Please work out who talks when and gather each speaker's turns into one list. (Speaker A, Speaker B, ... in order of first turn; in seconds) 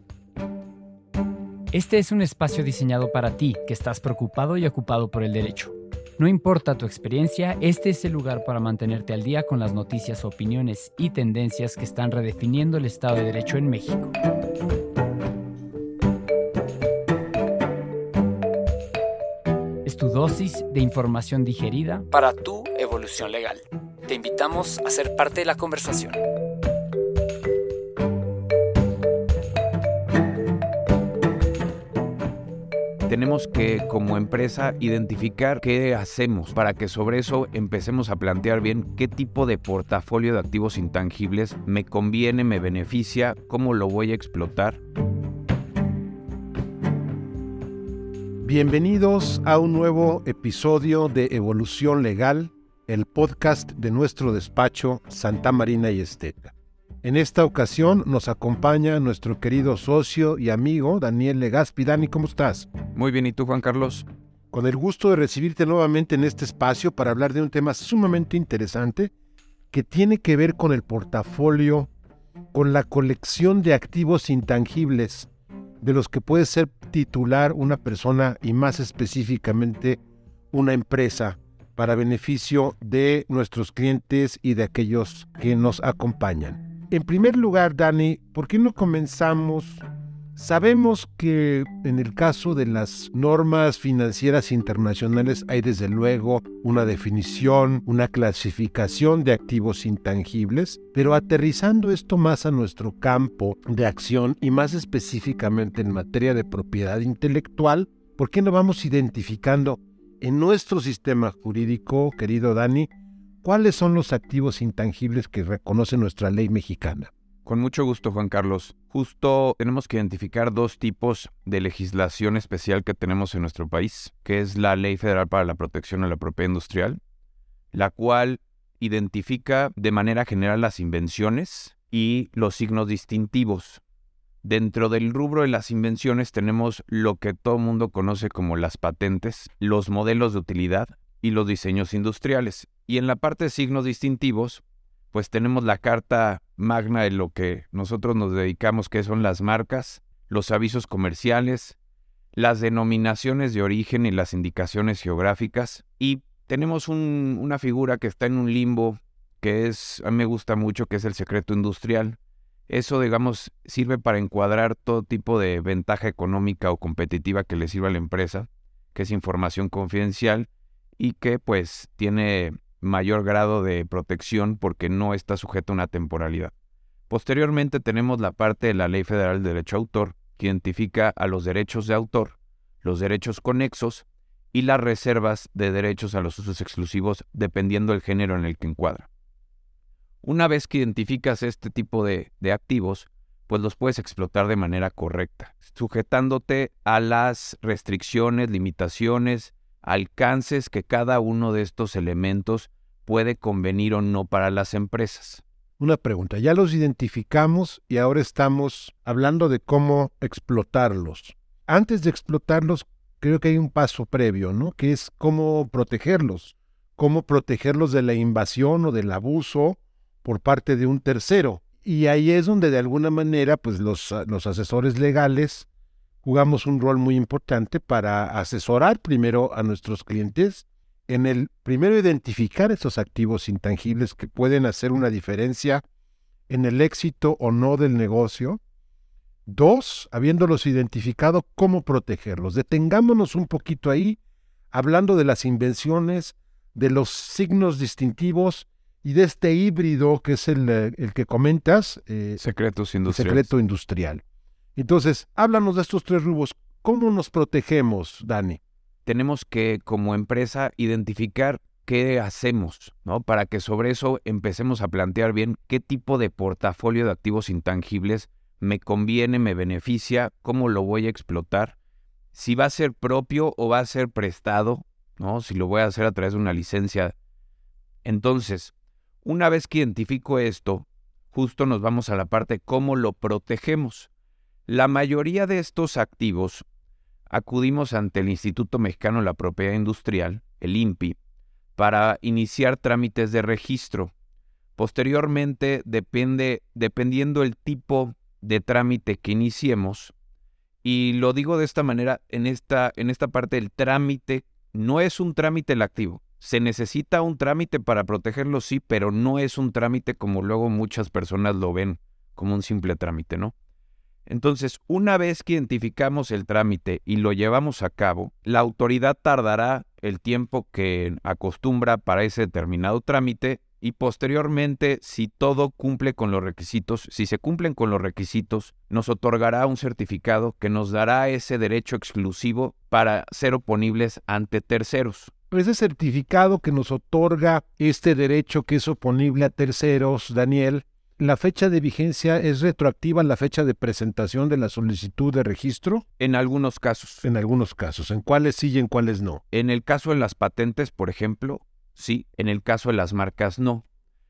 Speaker A: 1.7-14.1, 19.9-26.2
Speaker B: 33.1-44.8, 63.0-64.1, 117.5-127.0, 127.7-133.8, 134.4-151.8, 152.3-176.5, 177.1-189.1, 190.2-205.4, 252.4-253.5, 259.1-271.8, 272.3-277.1, 278.1-284.1, 284.7-286.6, 287.3-291.2, 291.8-294.1, 294.8-300.1, 300.8-313.5, 314.3-335.3, 346.2-347.2, 349.5-353.9
Speaker C: 48.4-62.7, 64.5-69.1, 69.7-71.9, 72.5-75.3, 75.8-80.0, 80.5-89.8, 90.4-112.9, 113.4-117.1, 205.8-225.7, 226.2-235.8, 236.5-238.6, 239.5-244.2, 244.7-252.4, 253.1-254.2, 254.8-258.6, 335.5-346.0, 347.2-349.4